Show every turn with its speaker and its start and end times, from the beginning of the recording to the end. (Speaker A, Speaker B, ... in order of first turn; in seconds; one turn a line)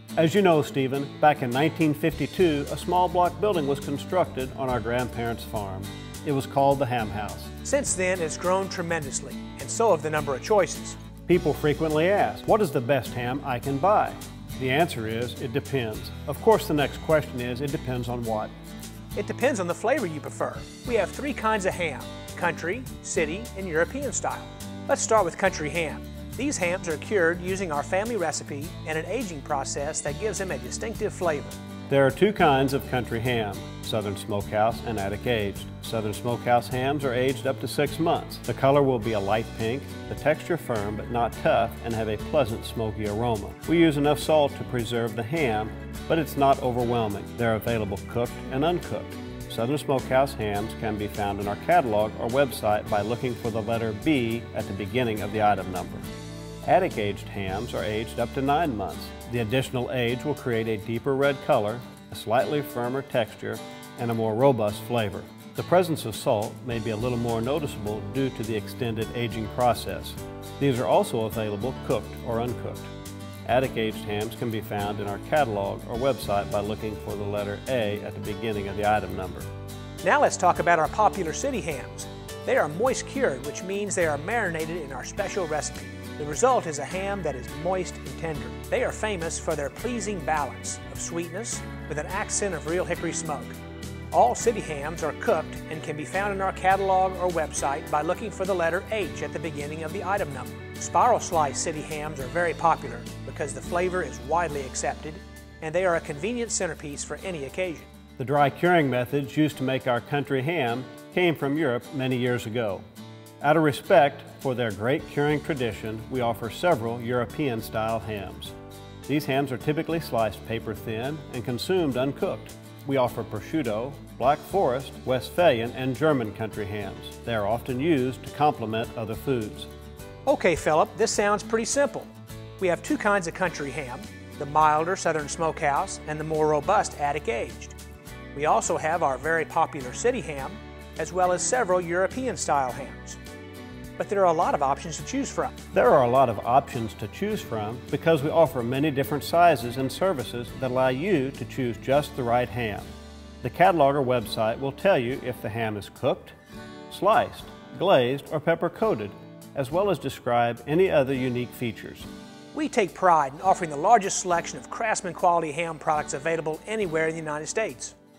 Speaker A: 0.2-7.5
Speaker B: 7.6-11.0
Speaker A: 11.3-18.5
Speaker B: 19.1-31.6
Speaker A: 31.9-56.1
Speaker A: 56.6-72.9
Speaker A: 73.5-79.5
Speaker B: 80.0-93.6
Speaker B: 94.1-107.9
Speaker A: 108.2-112.8
Speaker A: 113.4-118.5
Speaker A: 119.1-129.7
Speaker B: 130.3-137.8
Speaker B: 138.3-143.2
Speaker B: 144.0-145.5
Speaker A: 145.7-152.9
Speaker A: 153.4-156.4
Speaker A: 156.9-162.1
Speaker B: 162.5-167.9